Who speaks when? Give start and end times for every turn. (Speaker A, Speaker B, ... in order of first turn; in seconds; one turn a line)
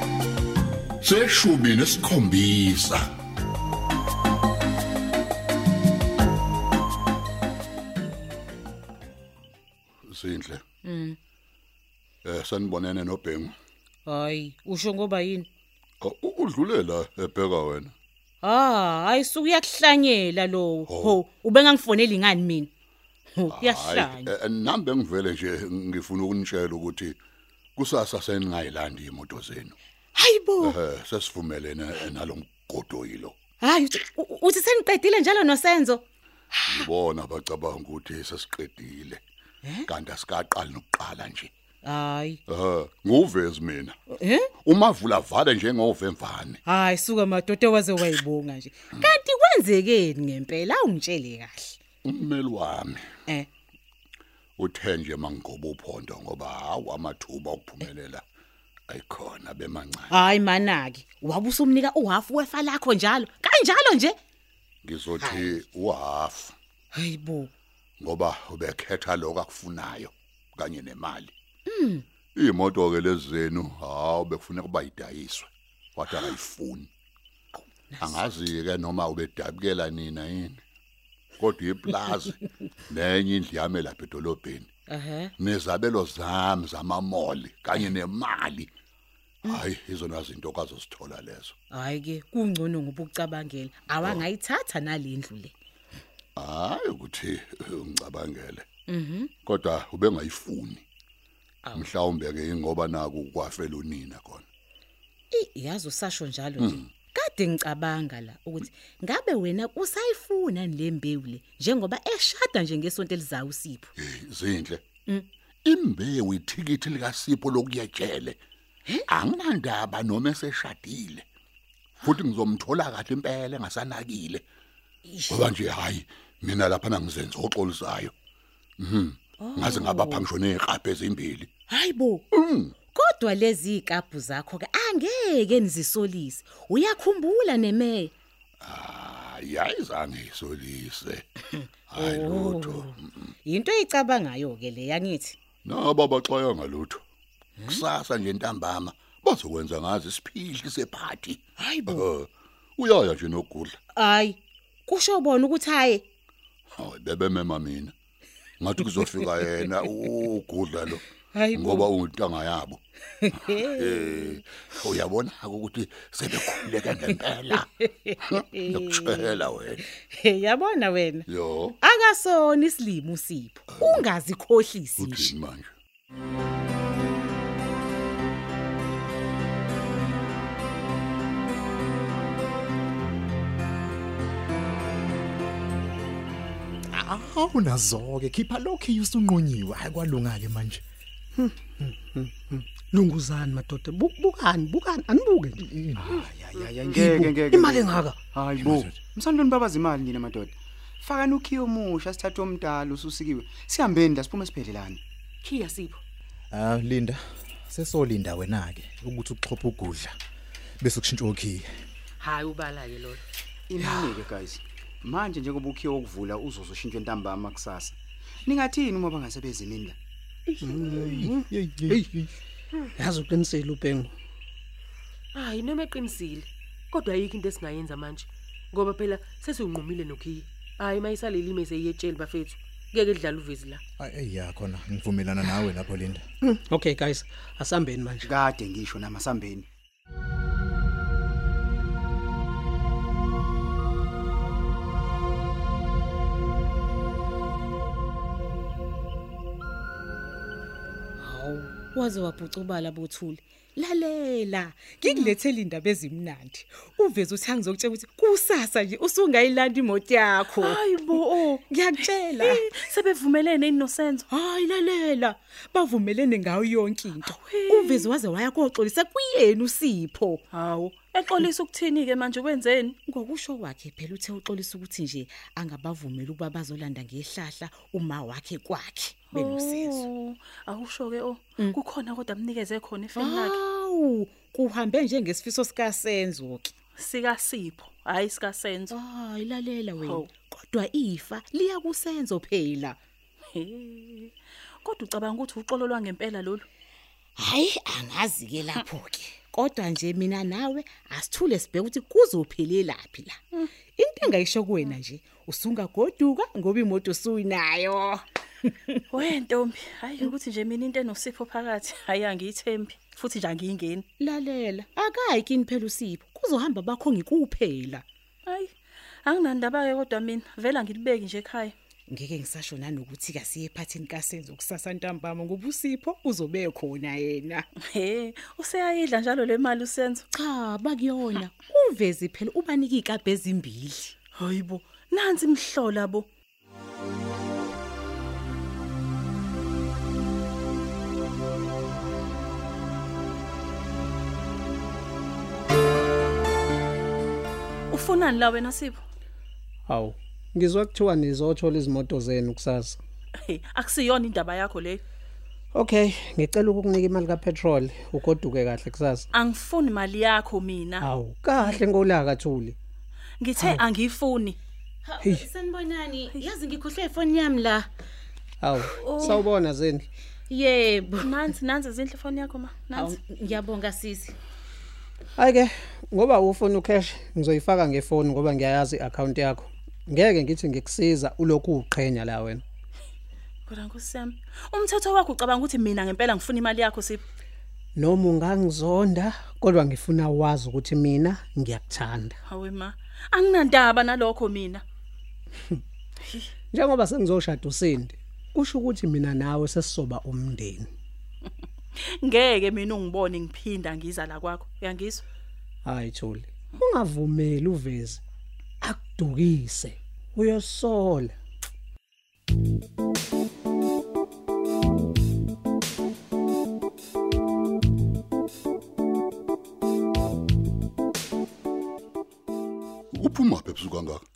Speaker A: 1.0-3.1
Speaker A: 10.1-10.6
Speaker B: 10.8-11.2
Speaker A: 12.2-13.5
Speaker B: 14.1-15.5
Speaker A: 16.0-17.9
Speaker B: 18.4-22.7
Speaker A: 20.9-21.2
Speaker B: 23.4-24.3
Speaker A: 23.5-27.2
Speaker A: 27.8-29.8
Speaker B: 30.2-30.8
Speaker A: 30.6-33.4
Speaker B: 33.6-36.9
Speaker A: 36.7-39.2
Speaker B: 39.6-39.9
Speaker A: 39.9-41.5
Speaker B: 41.8-42.4
Speaker A: 42.5-44.0
Speaker B: 44.1-44.5
Speaker A: 44.6-46.6
Speaker B: 46.6-51.8
Speaker A: 52.0-53.0
Speaker A: 54.6-58.2
Speaker A: 58.9-60.2
Speaker B: 60.1-64.2
Speaker A: 64.8-66.5
Speaker B: 65.2-65.6
Speaker B: 66.9-67.5
Speaker A: 68.0-71.3
Speaker B: 71.7-72.0
Speaker A: 72.4-76.9
Speaker B: 77.5-78.3
Speaker A: 78.0-80.6
Speaker A: 81.4-82.4
Speaker A: 82.9-84.7
Speaker B: 84.9-85.3
Speaker A: 85.4-88.7
Speaker A: 89.5-91.5
Speaker B: 91.7-95.5
Speaker A: 96.4-98.7
Speaker B: 98.9-99.3
Speaker A: 99.5-100.8
Speaker A: 101.8-104.5
Speaker B: 105.3-113.9
Speaker A: 106.6-106.9
Speaker A: 114.0-114.8
Speaker A: 115.7-118.4
Speaker A: 119.1-121.2
Speaker A: 122.0-124.4
Speaker B: 125.1-125.5
Speaker A: 125.3-128.1
Speaker A: 128.8-131.5
Speaker B: 129.4-130.3
Speaker B: 131.7-132.2
Speaker A: 132.3-132.7
Speaker B: 132.9-138.1
Speaker A: 138.6-141.3
Speaker B: 141.5-145.4
Speaker A: 141.9-143.3
Speaker A: 145.6-147.0
Speaker A: 147.7-153.8
Speaker B: 151.6-152.1
Speaker B: 154.0-156.0
Speaker A: 156.8-157.9
Speaker A: 158.6-161.0
Speaker B: 161.3-161.9
Speaker A: 161.6-162.8
Speaker B: 163.2-164.4
Speaker A: 163.4-167.7
Speaker B: 167.1-169.3
Speaker A: 168.3-169.8
Speaker B: 169.9-171.3
Speaker A: 171.3-171.8
Speaker B: 171.8-175.3
Speaker A: 173.7-174.1
Speaker A: 175.0-175.7
Speaker C: 186.9-190.8
Speaker D: 191.4-195.6
Speaker C: 195.6-196.2
Speaker E: 196.0-205.0
Speaker F: 196.6-196.9
Speaker D: 197.0-198.2
Speaker C: 198.6-198.9
Speaker F: 205.4-206.0
Speaker C: 206.5-210.1
Speaker C: 210.8-211.7
Speaker F: 212.2-213.2
Speaker E: 213.7-220.0
Speaker C: 220.5-222.3
Speaker D: 220.6-222.1
Speaker D: 223.0-224.1
Speaker F: 225.3-233.8
Speaker C: 234.0-236.2
Speaker D: 236.4-238.3
Speaker E: 238.2-239.7
Speaker B: 251.2-262.7
Speaker G: 260.6-264.3
Speaker B: 264.3-270.4
Speaker G: 267.3-268.1
Speaker G: 270.5-273.0
Speaker B: 273.1-280.1
Speaker G: 279.3-283.6
Speaker B: 283.2-286.7
Speaker G: 287.0-288.9
Speaker B: 288.9-293.0
Speaker G: 293.5-294.3
Speaker G: 294.8-296.6
Speaker B: 297.4-303.4
Speaker B: 304.0-309.0
Speaker G: 309.1-314.1
Speaker B: 314.2-318.1
Speaker G: 318.5-318.7
Speaker G: 319.3-321.7
Speaker B: 322.1-327.6
Speaker G: 327.9-330.2
Speaker B: 330.3-334.1
Speaker G: 334.4-336.3
Speaker G: 347.9-349.0
Speaker D: 349.9-353.0
Speaker G: 353.4-355.0
Speaker D: 355.7-359.3
Speaker G: 359.3-361.1
Speaker D: 361.0-362.8
Speaker G: 363.4-364.6
Speaker D: 363.6-363.8
Speaker B: 365.1-367.9
Speaker D: 368.6-370.1
Speaker G: 369.0-369.4
Speaker B: 370.5-371.3
Speaker G: 371.2-373.2
Speaker B: 372.9-374.4
Speaker D: 375.4-382.6
Speaker G: 383.7-387.2
Speaker D: 388.0-392.4
Speaker G: 392.5-394.8
Speaker D: 396.7-400.9
Speaker G: 402.0-405.2
Speaker D: 405.9-408.2
Speaker D: 408.8-411.3
Speaker A: 423.1-424.2